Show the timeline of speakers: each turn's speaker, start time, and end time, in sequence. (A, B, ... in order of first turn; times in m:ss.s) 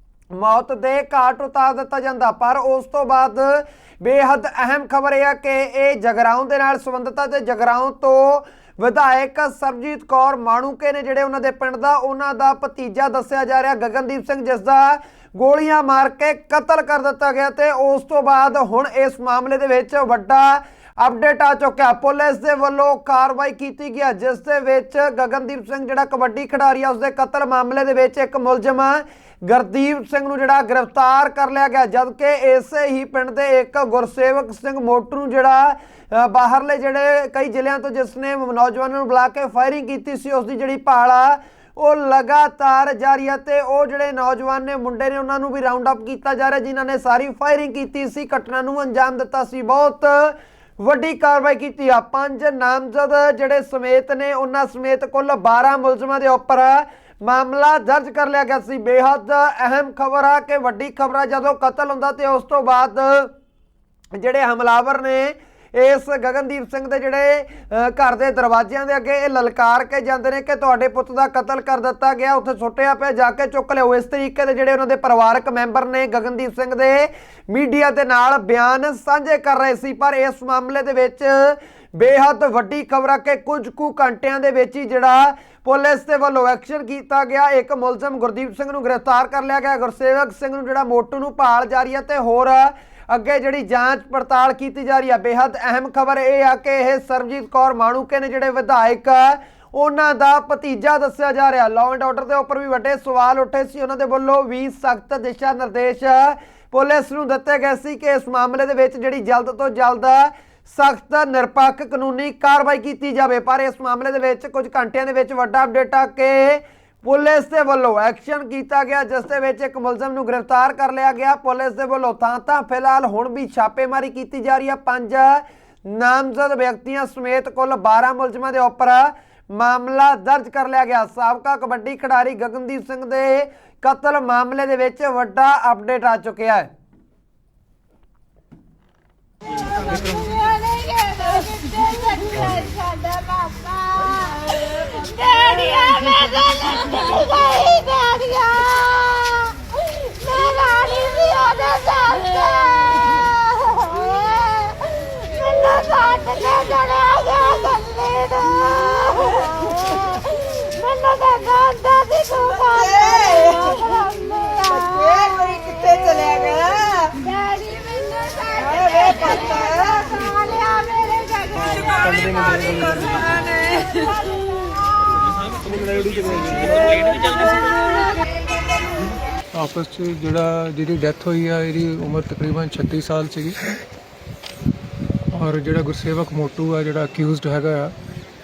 0:00.3-1:03.3 A
1:04.1-2:16.7 A
2:19.7-2:46.2 B
2:42.8-2:43.7 C
2:44.9-2:47.2 C
2:47.2-2:52.8 B
2:48.7-2:50.1 C
2:51.9-2:53.3 C
2:53.7-2:54.5 B
2:55.6-2:57.7 C
2:59.6-3:03.6 D
3:05.3-3:07.9 D